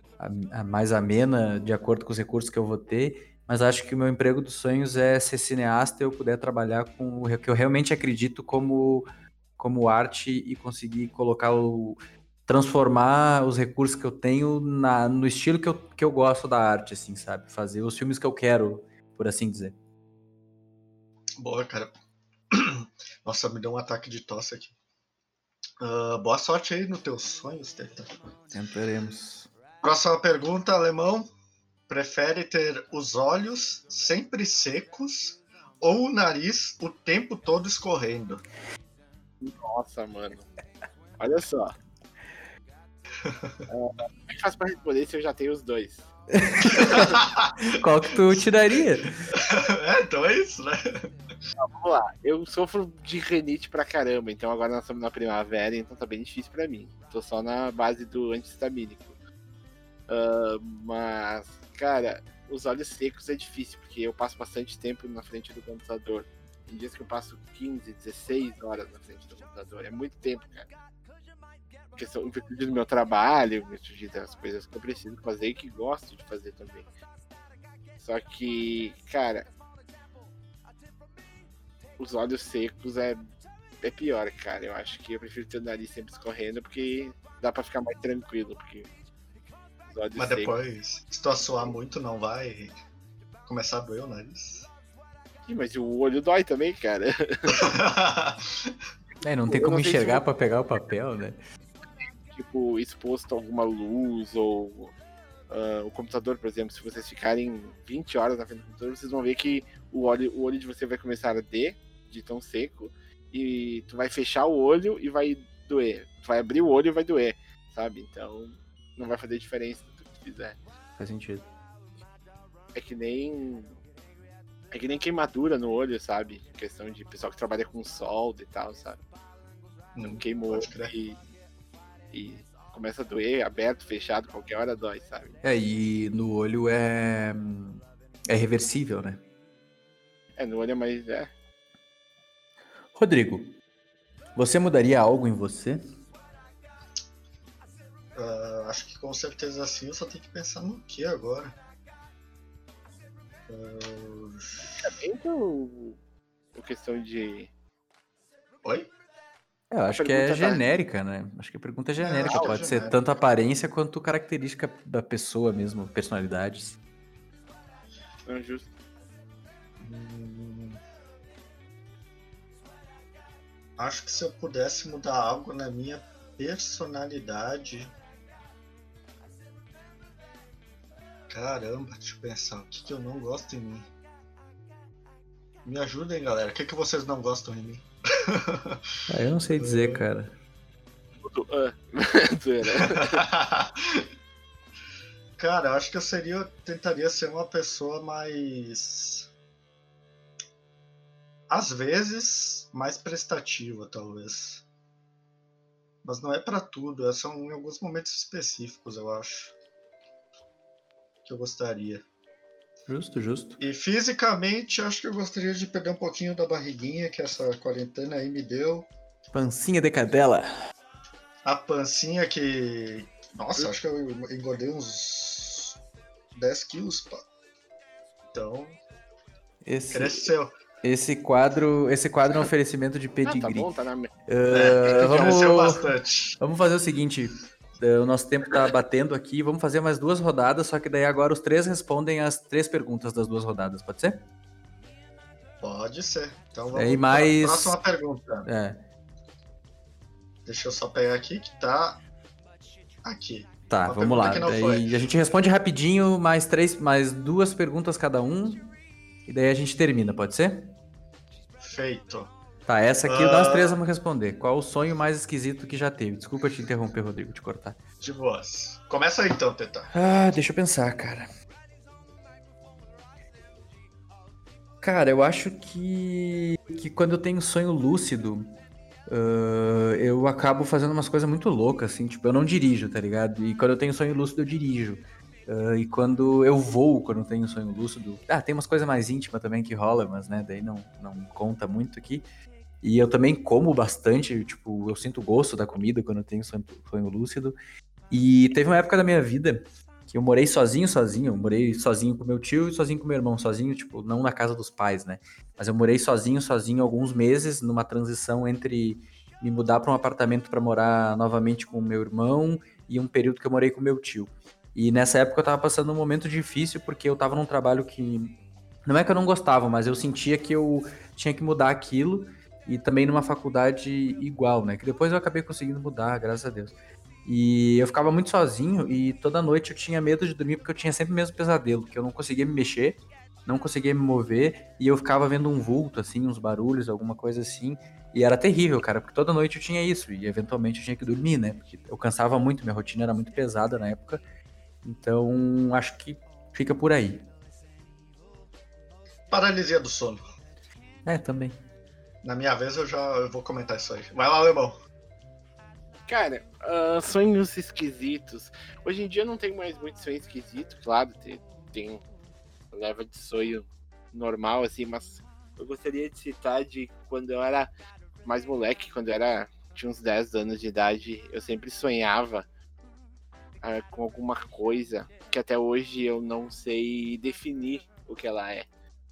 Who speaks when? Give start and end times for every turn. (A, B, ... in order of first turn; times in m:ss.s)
0:00.2-0:19.7 A
0:21.4-0:21.9 B
0:22.5-0:24.7 B
0:25.8-0:28.1 B
0:28.5-0:29.5 A
0:29.8-0:31.3 B
0:31.9-0:38.4 B
0:39.4-0:40.5 C
0:41.2-0:41.7 C
0:43.2-0:43.6 B
0:43.7-0:46.1 C
0:46.3-0:49.2 A
0:46.8-0:47.5 B
0:49.3-0:51.1 B
0:51.6-0:59.2 C
1:00.1-1:10.7 C
1:12.0-1:16.9 C
1:18.0-1:19.5 C
1:22.0-1:23.2 C
1:23.8-1:28.9 C
1:29.9-1:30.5 C
1:30.2-1:32.7 B
1:31.4-1:31.7 C
1:33.5-1:34.7 B
1:35.4-1:37.7 C
1:37.5-1:38.7 B
1:39.2-1:41.4 A
1:39.4-1:40.2 C
1:42.3-1:44.9 C
1:45.5-2:00.6 C
2:01.0-2:01.5 A
2:02.7-2:03.8 C
2:04.7-2:09.0 C
2:09.9-2:10.9 B
2:10.0-2:11.2 C
2:12.1-2:15.4 C
2:15.4-2:19.2 A
2:20.4-2:21.3 C
2:22.9-2:23.6 A
2:24.4-2:25.8 A
2:28.1-2:31.6 B
2:33.5-2:34.9 B
2:34.8-2:36.0 C
2:36.5-2:37.5 C
2:38.6-2:38.9 B
2:39.7-2:46.8 A
2:39.9-2:40.6 C
2:42.0-2:43.0 B
2:42.3-2:42.6 C
2:48.2-2:48.7 C
2:49.8-2:50.8 B
2:53.8-2:57.9 B
3:01.3-3:03.9 B
3:05.6-3:08.8 B
3:09.1-3:10.3 A
3:09.6-3:10.0 B
3:11.2-3:13.2 C
3:12.8-3:14.0 B
3:15.4-3:19.3 B
3:21.5-3:24.6 B
3:26.0-3:29.5 B
3:31.2-3:32.0 B
3:32.9-3:33.6 A
3:33.6-3:38.9 B
3:39.3-3:40.5 A
3:41.4-3:45.8 B
3:46.3-3:47.2 B
3:48.3-3:48.8 B
3:49.6-3:50.3 A
3:49.9-3:50.5 B
3:50.8-3:53.7 A
3:53.2-3:54.1 C
3:54.3-4:04.2 A
3:54.5-3:56.4 B
4:05.6-4:08.5 B
4:06.7-4:07.8 A
4:08.4-4:08.8 A
4:10.4-4:12.0 B
4:13.0-4:14.9 B
4:13.7-4:18.7 A
4:19.3-4:20.7 A
4:21.6-4:22.3 B
4:22.6-4:27.8 A
4:23.0-4:23.8 B
4:28.0-4:29.9 B
4:29.9-4:31.3 A
4:34.8-4:38.6 A
4:39.1-4:52.2 A
4:52.8-4:57.6 A
4:58.1-5:18.3 A
5:18.8-5:26.7 A
5:27.2-5:44.2 A
5:44.8-5:47.2 A
5:49.3-5:50.2 B
5:51.0-5:51.6 A
5:52.2-5:54.8 B
5:56.1-6:02.0 C
6:02.7-6:07.7 C
6:08.2-6:12.4 C
6:13.6-6:18.7 C